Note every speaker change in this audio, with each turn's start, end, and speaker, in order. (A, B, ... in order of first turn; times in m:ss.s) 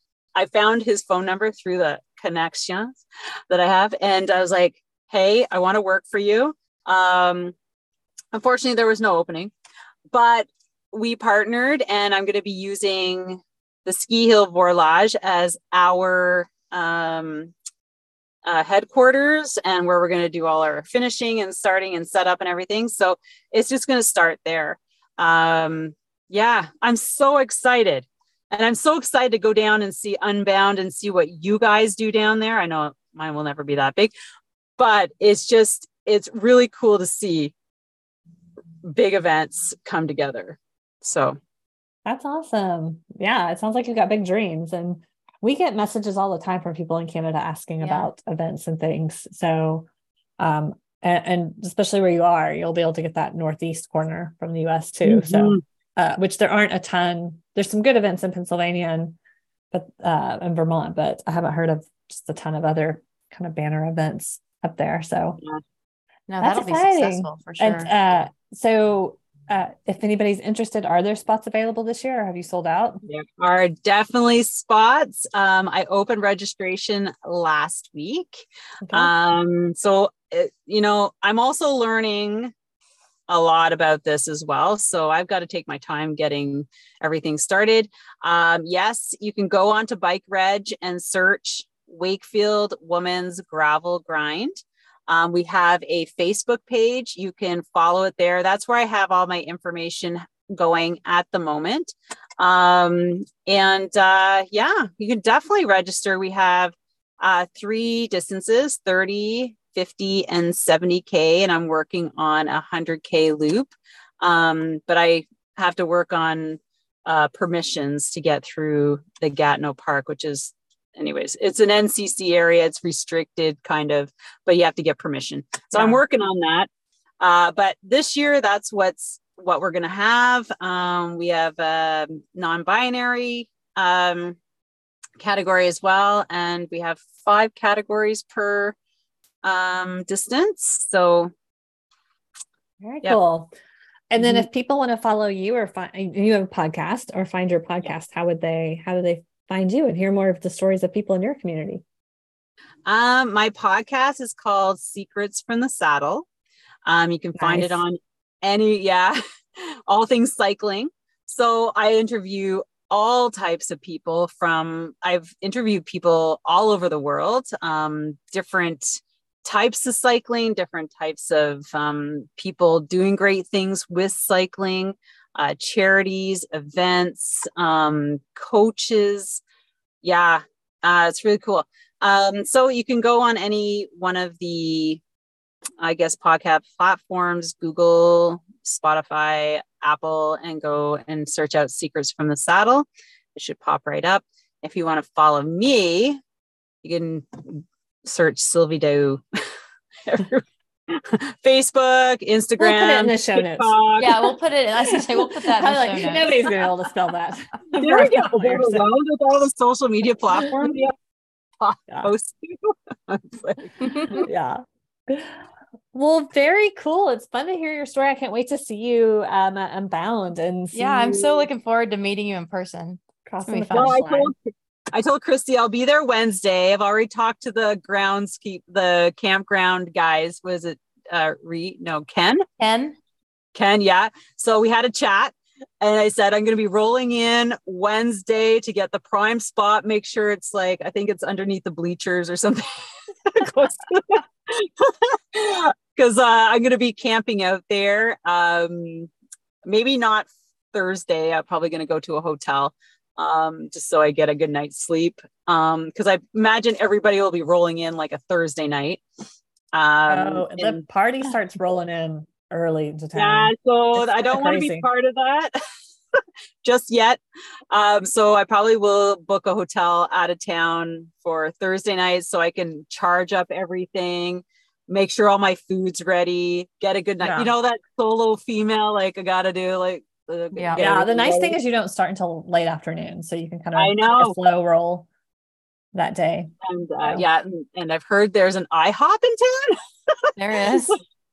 0:00.4-0:07.6 A
0:08.3-0:09.5 A
0:10.1-0:17.5 A
0:18.4-0:34.1 A
0:34.8-0:37.5 A
0:38.8-0:41.4 A
0:42.1-0:49.9 B
0:47.8-0:48.1 C
0:50.4-0:59.2 B
0:55.0-0:55.6 A
0:59.7-1:05.4 B
1:06.3-1:08.1 C
1:06.4-1:13.0 B
1:13.0-1:22.5 A
1:18.8-1:19.1 B
1:23.3-1:34.6 A
1:35.1-2:06.7 A
2:05.7-2:06.0 B
2:07.2-2:14.4 A
2:15.2-2:18.8 A
2:19.4-2:21.3 A
2:22.8-2:23.5 B
2:24.1-2:31.8 B
2:32.9-2:36.3 A
2:36.9-2:59.4 A
2:37.4-2:37.8 B
3:00.0-3:05.0 A
3:05.8-3:16.2 A
3:16.8-3:19.2 A
3:20.1-3:24.2 A
3:22.6-3:23.7 B
3:24.0-3:26.9 C
3:25.2-3:28.9 B
3:27.8-3:30.9 A
3:30.3-3:30.8 B
3:31.6-3:34.2 A
3:33.8-3:34.3 C
3:34.2-3:35.4 B
3:35.9-3:41.4 B
3:40.7-3:44.0 C
3:43.3-3:44.3 B
3:43.7-3:44.4 A
3:44.9-3:52.4 A
3:52.6-3:53.0 C
3:53.6-4:09.1 A
4:09.6-4:19.0 A
4:19.7-4:20.8 A
4:20.1-4:24.9 B
4:23.2-4:25.6 A
4:26.6-4:27.2 A
4:27.7-4:41.6 A
4:37.2-4:37.5 B
4:40.6-4:40.8 C
4:40.8-4:45.1 B
4:43.8-4:44.4 A
4:45.9-4:46.5 B
4:46.6-4:51.0 A
4:50.4-4:51.0 C